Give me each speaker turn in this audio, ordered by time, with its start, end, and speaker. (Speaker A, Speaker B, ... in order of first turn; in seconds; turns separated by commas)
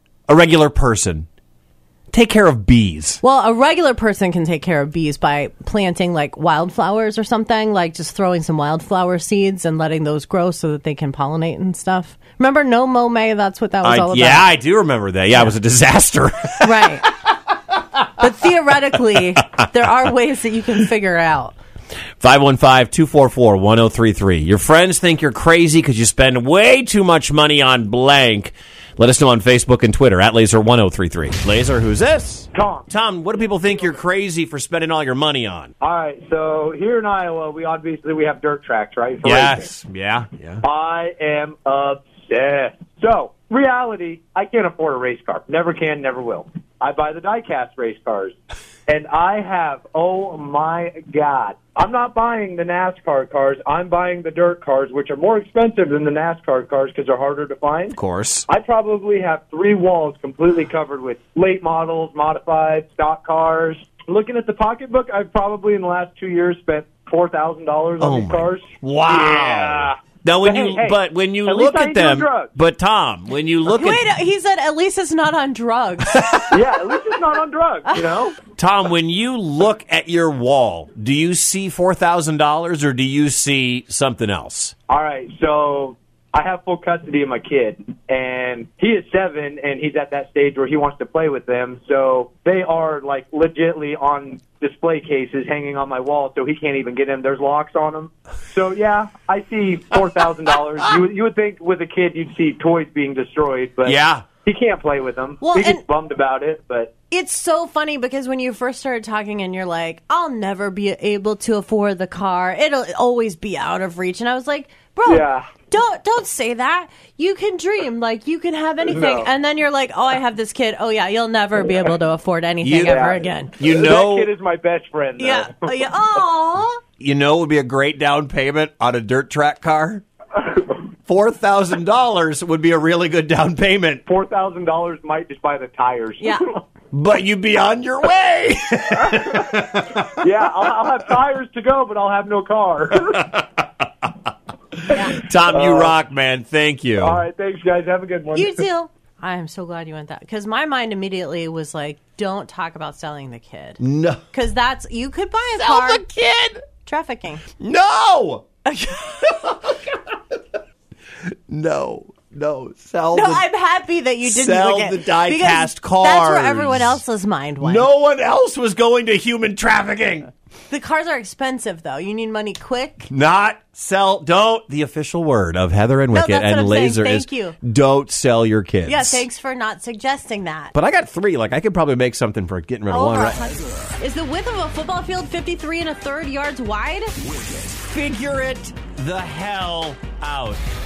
Speaker A: 0.3-1.3, Speaker A: 2.1-3.2, Speaker B: 3.2-14.5, Speaker A: 13.8-17.3, Speaker B: 16.6-17.1, Speaker B: 18.2-21.6, Speaker A: 22.2-35.7, Speaker C: 32.5-32.9, Speaker C: 35.8-39.7, Speaker A: 39.2-40.6, Speaker C: 40.6-48.4, Speaker C: 48.9-58.0, Speaker A: 57.9-58.5, Speaker C: 58.5-69.9, Speaker A: 68.0-74.1, Speaker C: 70.4-72.5, Speaker B: 73.7-76.2, Speaker A: 76.0-76.6, Speaker C: 76.5-78.4, Speaker A: 78.5-84.7, Speaker C: 84.9-106.9, Speaker A: 103.8-104.2, Speaker B: 105.4-105.8, Speaker B: 107.1-123.6, Speaker C: 115.0-115.5, Speaker C: 118.9-119.3, Speaker A: 122.6-124.3, Speaker C: 122.8-125.8, Speaker B: 125.2-126.8, Speaker A: 127.0-130.0, Speaker A: 131.1-134.0, Speaker C: 134.1-136.6, Speaker A: 136.9-140.2, Speaker C: 139.1-139.5, Speaker C: 140.0-143.3, Speaker A: 142.9-144.1, Speaker A: 144.9-147.2, Speaker C: 145.5-145.9, Speaker C: 147.0-148.7, Speaker B: 148.3-153.8, Speaker A: 153.8-154.2, Speaker B: 154.3-156.0, Speaker A: 155.6-156.6, Speaker B: 156.8-157.4, Speaker A: 157.6-158.4, Speaker B: 158.7-159.3, Speaker A: 159.2-160.4, Speaker A: 161.5-163.5, Speaker B: 163.1-167.9, Speaker A: 164.2-167.0, Speaker A: 167.6-170.3, Speaker B: 170.7-173.1, Speaker A: 173.1-179.2, Speaker B: 176.1-177.6, Speaker B: 178.9-180.7, Speaker A: 180.7-183.4, Speaker B: 182.9-187.2, Speaker A: 187.6-190.6